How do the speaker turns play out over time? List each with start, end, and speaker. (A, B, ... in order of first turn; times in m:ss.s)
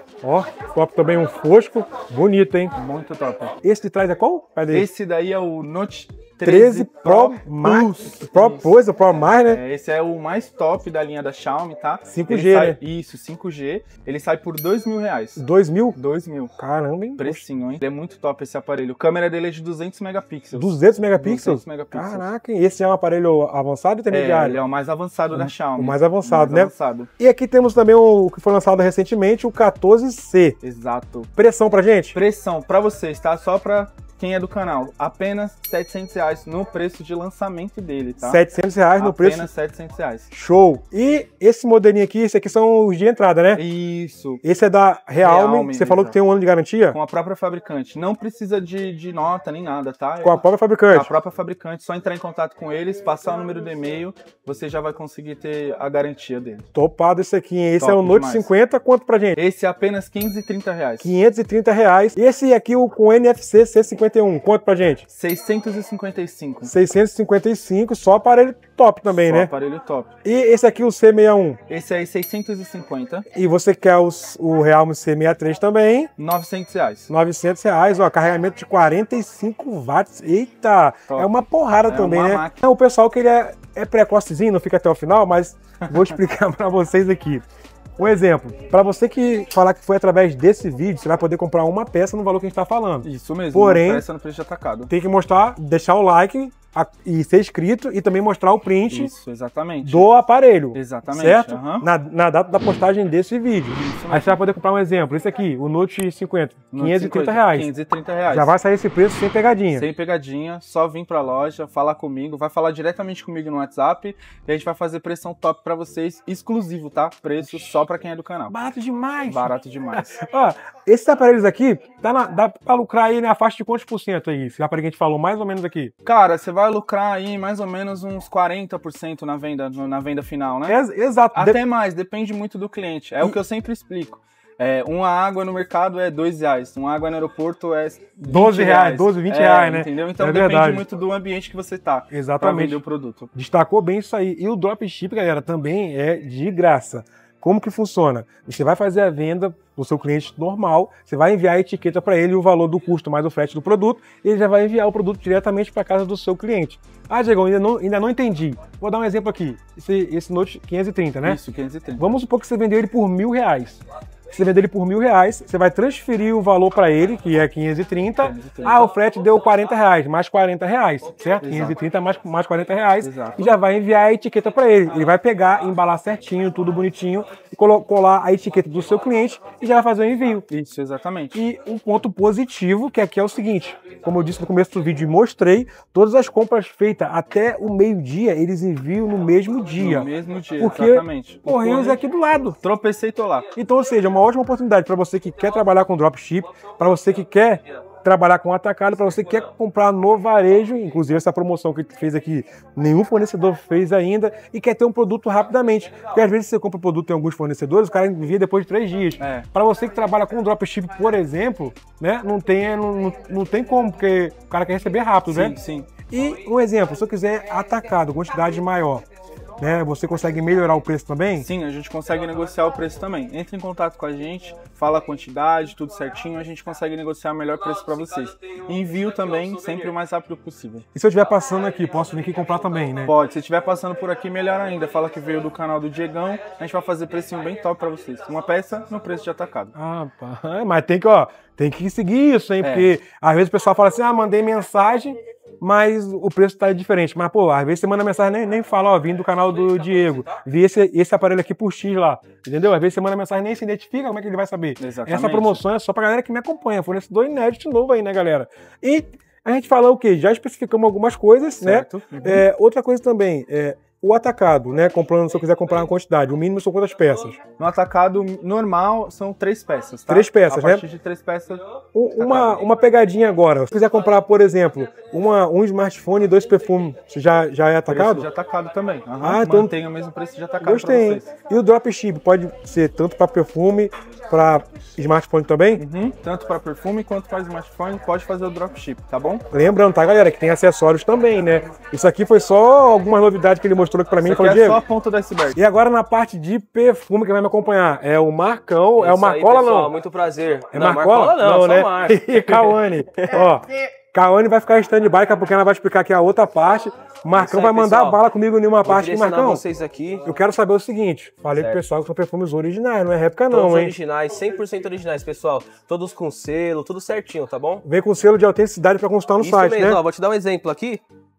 0:00.2-0:02.8 A
0:02.8-0:03.6 B
0:03.6-0:04.9 A
0:04.7-0:08.8 B
0:06.4-0:09.6 A
0:09.5-0:15.4 B
0:12.1-0:12.8 A
0:15.4-0:16.0 A
0:16.0-0:16.5 B
0:16.6-0:17.4 A
0:17.2-0:22.3 B
0:20.6-0:24.6 A
0:24.1-0:27.1 B
0:25.3-0:30.6 A
0:30.6-0:31.3 B
0:31.4-0:32.2 A
0:32.1-0:38.4 B
0:38.2-0:39.5 A
0:39.0-0:40.3 B
0:40.3-0:43.6 A
0:43.5-0:44.4 B
0:44.4-0:47.0 A
0:45.2-0:46.2 B
0:46.9-0:56.7 B
0:50.2-0:51.1 A
0:56.7-0:59.4 A
0:57.8-0:58.5 B
0:59.4-1:01.1 B
1:01.0-1:05.0 A
1:05.1-1:06.7 B
1:06.6-1:09.5 A
1:09.1-1:10.1 B
1:10.2-1:11.6 A
1:11.7-1:13.3 B
1:13.3-1:16.1 A
1:16.2-1:17.1 B
1:17.1-1:27.4 A
1:21.8-1:22.6 B
1:28.0-1:34.0 A
1:33.0-1:34.9 B
1:34.9-1:39.1 A
1:38.9-1:40.1 B
1:39.8-1:47.7 A
1:40.7-1:41.9 B
1:43.7-1:44.4 B
1:46.7-1:48.5 B
1:48.3-1:49.9 A
1:49.7-1:58.6 B
1:58.5-1:59.5 A
1:59.3-2:00.2 B
2:00.2-2:05.9 A
2:06.0-2:10.8 B
2:10.7-2:11.6 A
2:11.4-2:23.3 B
2:18.2-2:20.8 A
2:22.1-2:22.8 A
2:23.3-2:41.4 A
2:41.2-2:42.0 B
2:42.0-3:00.4 A
2:48.2-2:48.9 B
2:51.4-2:51.8 B
2:53.0-2:53.5 B
3:00.5-3:01.4 B
3:01.3-3:12.6 A
3:09.8-3:12.0 B
3:12.6-3:13.5 B
3:13.6-3:35.6 A
3:29.2-3:29.5 B
3:35.3-3:35.9 B
3:36.1-3:39.1 A
3:39.6-3:41.5 A
3:41.4-3:50.9 B
3:50.9-3:53.1 A
3:53.1-3:59.7 B
3:59.7-4:27.4 A
4:02.6-4:02.9 B
4:14.8-4:15.6 B
4:21.6-4:22.4 B
4:27.6-4:31.6 B
4:30.1-4:30.8 A
4:32.0-4:38.3 A
4:32.2-4:32.7 B
4:37.9-4:41.3 B
4:39.2-4:39.7 A
4:40.6-4:45.8 A
4:45.8-4:49.4 B
4:49.5-4:54.8 A
4:54.2-4:55.6 B
4:55.5-5:00.0 A
4:59.0-5:03.5 C
5:00.7-5:09.6 A
5:07.4-5:08.2 C
5:08.8-5:10.3 C
5:10.2-5:13.9 A
5:11.5-5:11.8 C
5:13.5-5:17.8 C
5:17.8-5:20.0 A
5:19.4-5:21.0 C